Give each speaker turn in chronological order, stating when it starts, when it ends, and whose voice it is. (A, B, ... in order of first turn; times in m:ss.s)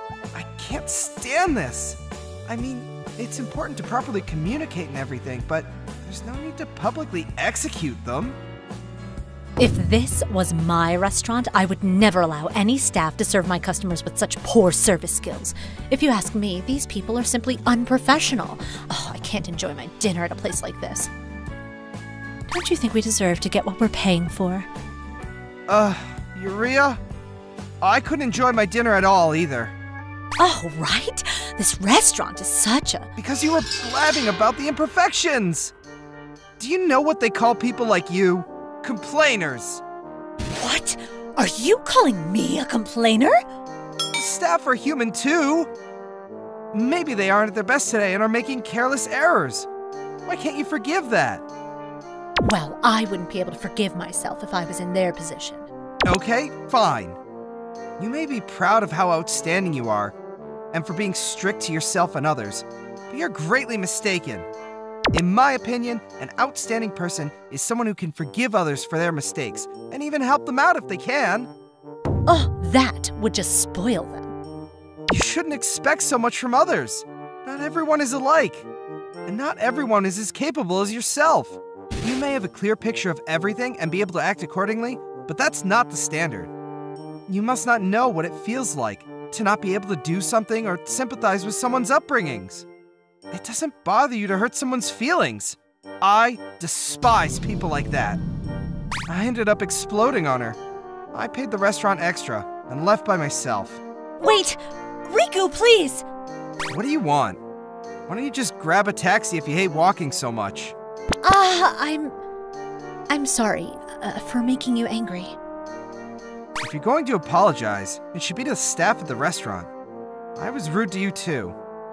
0:00.3-0:08.4 A
0:09.6-0:21.1 B
0:22.5-0:24.7 B
0:25.7-0:27.0 A
0:27.8-0:29.7 A
0:30.4-0:33.1 B
0:33.2-0:35.7 A
0:36.6-0:39.8 A
0:40.5-0:43.4 B
0:44.1-0:45.7 A
0:46.7-0:49.7 A
0:50.2-0:51.4 A
0:52.4-0:55.7 B
0:56.0-0:57.2 A
0:58.0-1:00.1 A
1:00.7-1:04.4 A
1:05.1-1:11.5 A
1:12.3-1:14.4 B
1:15.1-1:18.7 A
1:19.2-1:26.5 A
1:27.3-1:32.7 A
1:33.3-1:38.2 A
1:39.1-1:40.6 A
1:41.1-1:43.8 A
1:44.2-1:46.0 B
1:46.7-1:47.4 A
1:48.1-1:50.8 A
1:51.2-1:52.2 B
1:53.1-1:55.4 B
1:56.6-1:59.7 A
2:00.4-2:01.6 A